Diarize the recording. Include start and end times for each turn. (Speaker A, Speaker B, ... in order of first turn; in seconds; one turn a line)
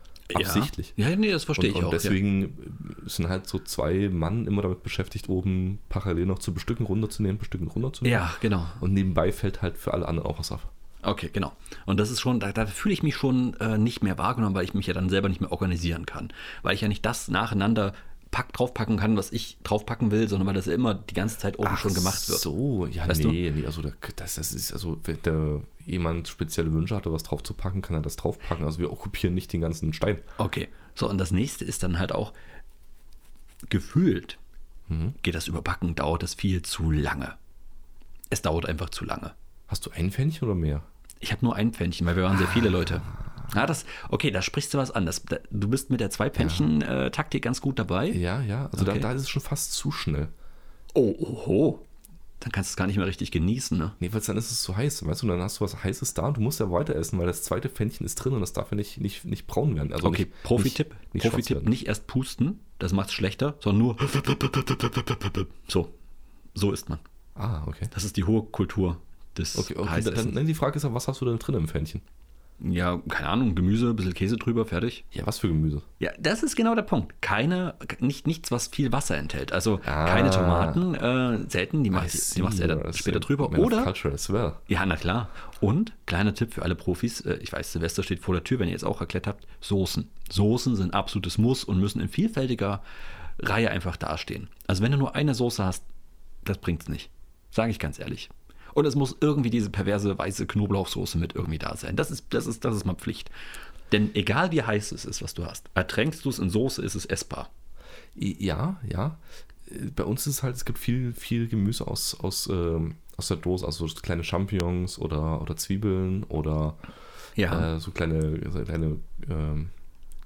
Speaker A: 0.3-2.2
Speaker B: 0.3-0.9
Speaker B: 1.6-10.7
Speaker A: 8.0-8.8
Speaker A: 11.0-22.5
Speaker B: 21.6-30.2
Speaker A: 23.1-23.4
Speaker A: 30.4-32.3
Speaker A: 33.7-34.4
Speaker B: 34.9-35.2
Speaker A: 35.2-37.4
Speaker A: 38.3-39.3
Speaker B: 39.7-40.9
Speaker A: 41.2-48.2
Speaker B: 42.4-43.4
Speaker B: 46.4-46.7
Speaker B: 48.1-50.3
Speaker A: 48.8-49.1
Speaker A: 50.9-51.9
Speaker A: 52.4-54.0
Speaker B: 54.0-61.8
Speaker A: 60.0-65.9
Speaker A: 66.5-67.0
Speaker B: 67.4-67.9
Speaker A: 67.9-70.4
Speaker B: 69.5-72.0
Speaker A: 72.6-75.0
Speaker B: 75.1-75.9
Speaker A: 76.0-83.9
Speaker B: 79.8-80.8
Speaker B: 81.9-84.6
Speaker A: 84.7-92.8
Speaker A: 93.4-95.9
Speaker A: 96.5-103.3
Speaker A: 103.9-107.5
Speaker B: 108.2-116.8
Speaker A: 117.4-117.7
Speaker B: 117.5-119.7